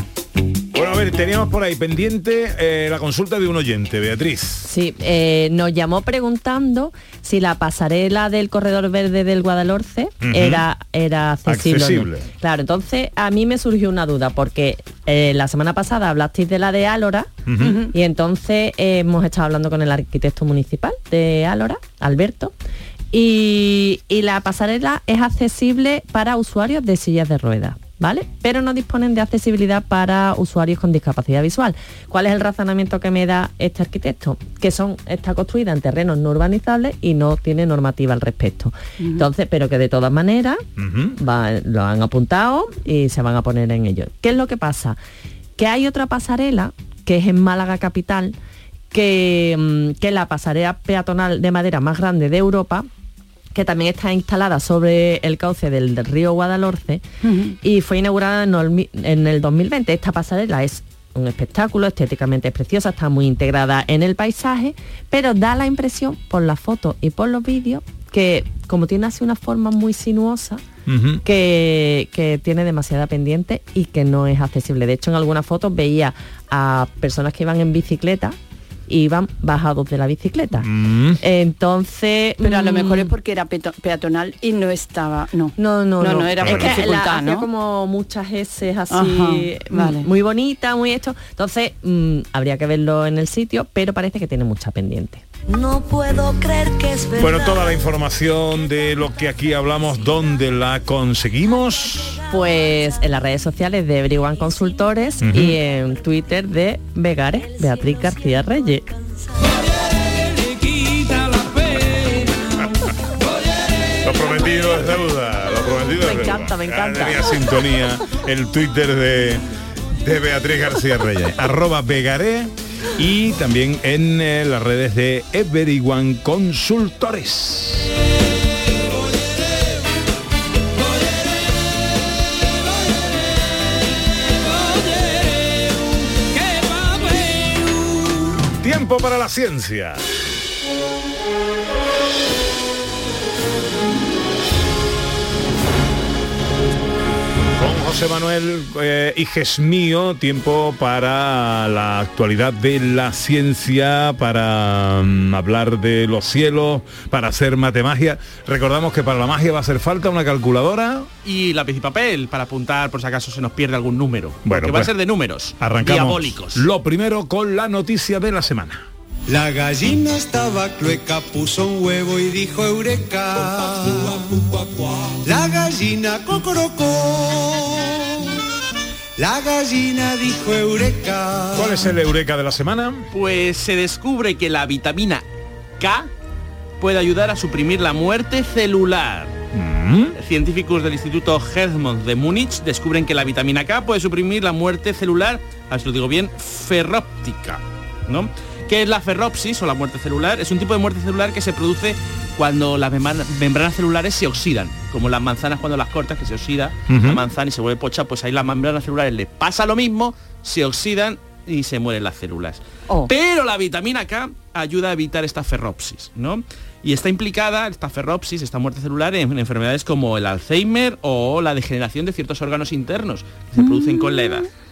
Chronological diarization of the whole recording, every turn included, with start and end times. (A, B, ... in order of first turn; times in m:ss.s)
0:00.7-0:04.7 A
0:04.6-0:17.3 B
0:10.2-0:10.6 A
0:11.5-0:12.3 A
0:17.5-0:17.8 A
0:17.6-0:17.9 C
0:17.9-0:22.5 B
0:23.1-0:40.6 B
0:39.0-0:39.3 C
0:40.8-0:41.2 A
0:41.2-0:45.0 B
0:45.6-0:48.4 B
0:48.9-0:52.9 B
0:53.6-0:57.0 B
0:57.2-0:57.6 C
0:57.6-1:10.6 B
1:10.9-1:11.2 A
1:11.2-1:18.4 B
1:18.9-1:20.7 B
1:20.6-1:21.2 A
1:21.2-1:23.1 B
1:22.4-1:27.5 C
1:25.6-1:35.2 B
1:26.4-1:26.9 A
1:28.9-1:30.1 C
1:35.5-1:37.9 D
1:37.2-1:42.2 A
1:42.2-1:43.1 D
1:42.3-1:48.9 B
1:44.3-1:44.8 D
1:45.2-1:45.6 A
1:47.4-1:49.5 D
1:50.4-1:52.0 E
1:54.0-1:59.4 A
1:56.0-1:57.4 B
2:00.0-2:07.9 A
2:18.6-2:20.0 A
2:27.6-2:41.1 A
2:41.2-2:46.7 F
2:44.5-2:44.9 A
2:45.6-2:48.9 A
2:49.3-2:50.4 E
2:51.1-2:56.4 E
2:57.3-2:58.0 E
2:59.2-3:01.8 E
3:01.5-3:03.1 A
3:03.1-3:05.2 F
3:05.8-3:06.1 F
3:06.8-3:09.4 F
3:09.5-3:10.2 A
3:10.2-3:44.5 F
3:26.9-3:27.2 A
3:43.6-3:44.5 C